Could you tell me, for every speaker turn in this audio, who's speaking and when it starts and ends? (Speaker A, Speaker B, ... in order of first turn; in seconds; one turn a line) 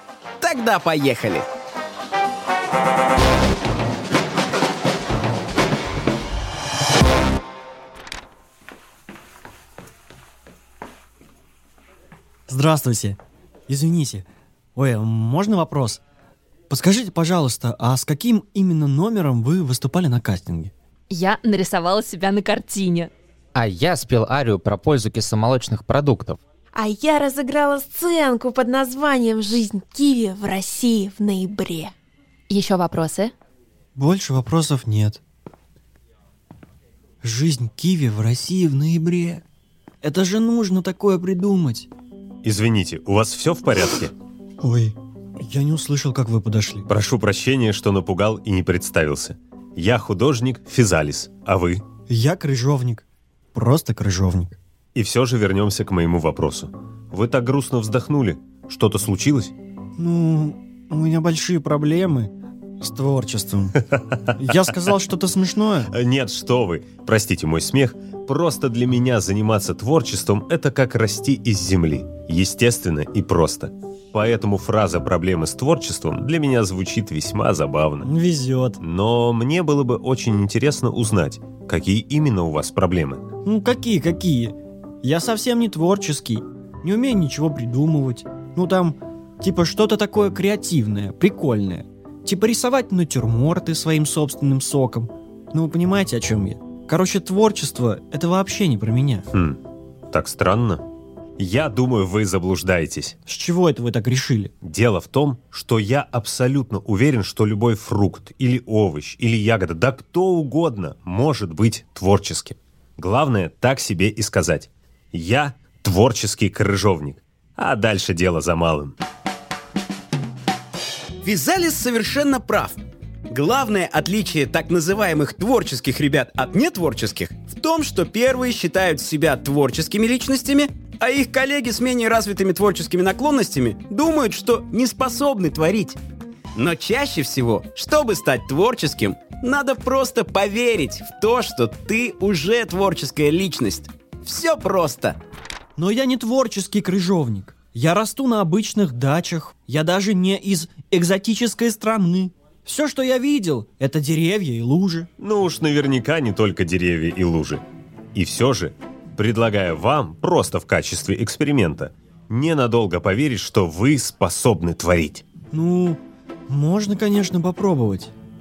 Speaker A: 0.4-1.5
Speaker B: 12.5-16.0
Speaker B: 16.7-20.7
Speaker C: 21.1-23.1
Speaker D: 23.6-26.4
Speaker E: 26.8-31.9
Speaker C: 32.5-33.3
Speaker B: 34.0-35.2
Speaker B: 37.2-39.4
Speaker B: 40.0-41.9
Speaker F: 42.4-44.1
Speaker B: 44.6-46.9
Speaker F: 46.9-51.8
Speaker B: 52.1-54.6
Speaker F: 55.0-59.5
Speaker B: 60.0-63.8
Speaker F: 63.9-64.3
Speaker B: 64.4-65.9
Speaker F: 65.9-78.1
Speaker B: 78.0-78.8
Speaker F: 78.8-83.2
Speaker B: 83.4-99.3
Speaker F: 99.3-99.6
Speaker F: 100.1-100.8
Speaker F: 101.4-103.2
Speaker B: 103.3-104.5
Speaker F: 104.6-119.0
Speaker A: 121.2-122.8
Speaker A: 123.3-136.0
Speaker A: 136.6-145.2
Speaker B: 145.8-155.1
Speaker F: 155.2-157.6
Speaker F: 158.1-165.2
Speaker B: 165.5-168.1